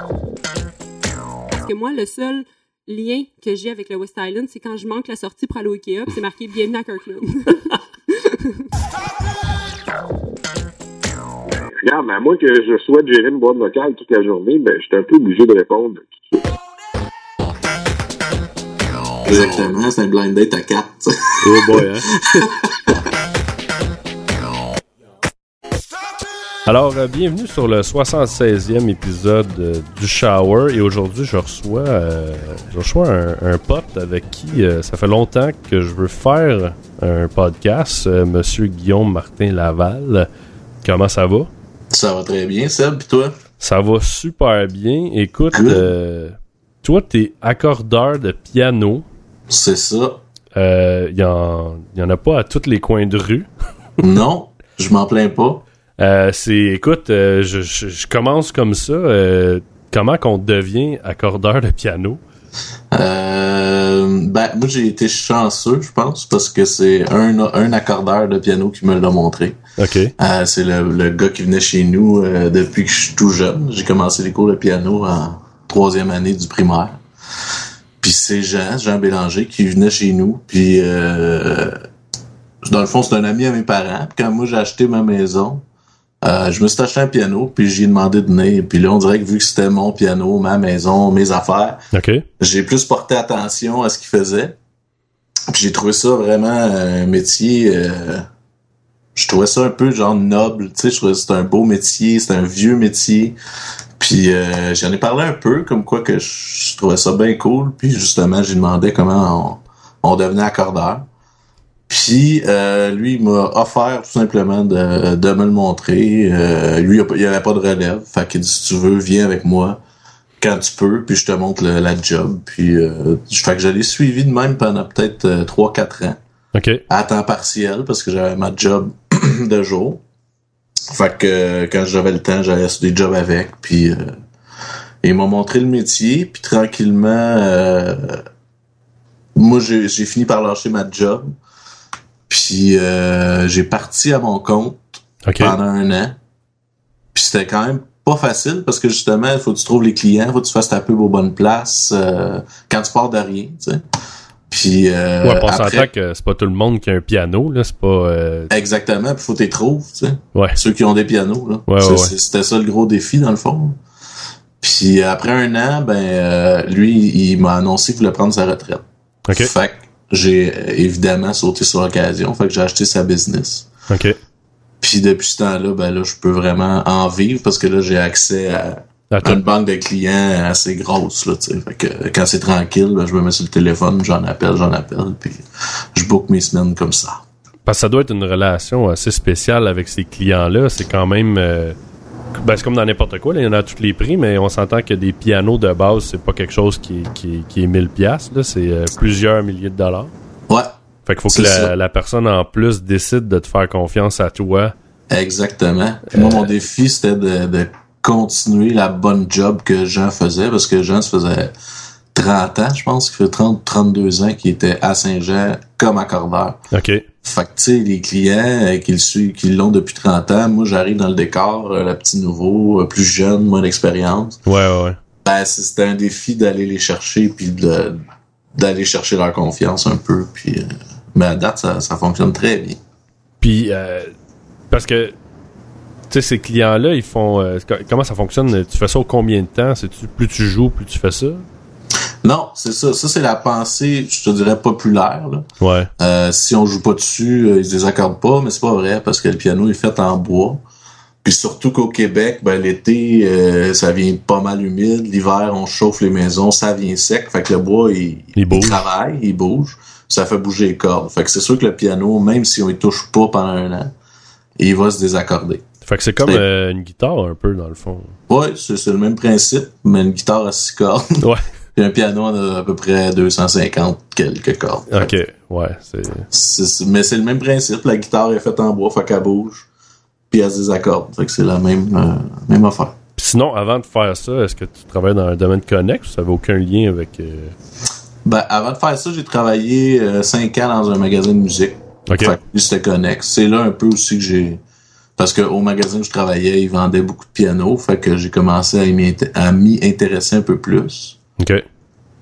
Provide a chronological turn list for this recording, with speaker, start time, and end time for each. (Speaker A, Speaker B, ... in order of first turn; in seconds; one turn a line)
Speaker A: 1.6-8.7
Speaker B: 11.7-16.1
Speaker C: 19.2-23.0
Speaker D: 21.4-22.1
Speaker D: 26.7-40.3
Speaker D: 40.8-41.5
Speaker C: 41.9-43.4
Speaker D: 43.6-49.1
Speaker C: 45.5-45.9
Speaker C: 49.5-50.2
Speaker D: 50.5-53.5
Speaker C: 54.0-55.6
Speaker D: 56.0-62.2
Speaker C: 62.9-69.6
Speaker D: 69.8-70.1
Speaker C: 70.2-77.0
Speaker C: 78.0-81.8
Speaker C: 82.6-85.6
Speaker C: 86.2-91.8
Speaker D: 91.9-92.3
Speaker C: 92.4-94.6
Speaker C: 95.5-98.3
Speaker C: 99.2-103.4
Speaker C: 104.0-111.1
Speaker C: 111.9-119.8
Speaker C: 120.4-126.2
Speaker D: 126.5-126.8
Speaker C: 126.9-130.0
Speaker C: 130.9-134.1
Speaker C: 135.0-138.2
Speaker C: 139.3-141.3
Speaker C: 142.3-146.2
Speaker D: 145.2-145.6
Speaker C: 147.1-153.8
Speaker C: 154.5-155.9
Speaker D: 155.2-158.5
Speaker C: 158.5-163.8
Speaker D: 160.3-160.6
Speaker D: 161.7-162.1
Speaker C: 164.6-168.8
Speaker D: 169.3-169.5
Speaker C: 169.3-173.7
Speaker D: 173.9-174.2
Speaker C: 174.8-187.2
Speaker D: 179.1-179.4
Speaker D: 187.7-191.8
Speaker D: 192.3-200.1
Speaker D: 201.1-204.8
Speaker C: 201.3-201.7
Speaker C: 205.1-211.5
Speaker D: 206.1-206.5
Speaker C: 212.1-216.6
Speaker D: 216.7-217.1
Speaker C: 217.2-224.4
Speaker D: 224.5-225.0
Speaker C: 225.2-228.0
Speaker C: 228.6-232.8
Speaker D: 233.4-234.1
Speaker D: 234.7-235.2
Speaker D: 236.1-241.4
Speaker C: 242.2-245.5
Speaker D: 245.6-245.9
Speaker C: 246.0-250.6
Speaker C: 251.2-263.9
Speaker D: 258.4-258.9
Speaker C: 264.6-265.6
Speaker D: 265.9-268.2
Speaker C: 268.3-275.1
Speaker D: 274.9-276.3
Speaker C: 276.3-279.7
Speaker C: 280.3-283.0
Speaker D: 283.2-287.6
Speaker C: 288.2-294.6
Speaker D: 292.1-292.4
Speaker C: 295.2-301.2
Speaker D: 301.4-301.6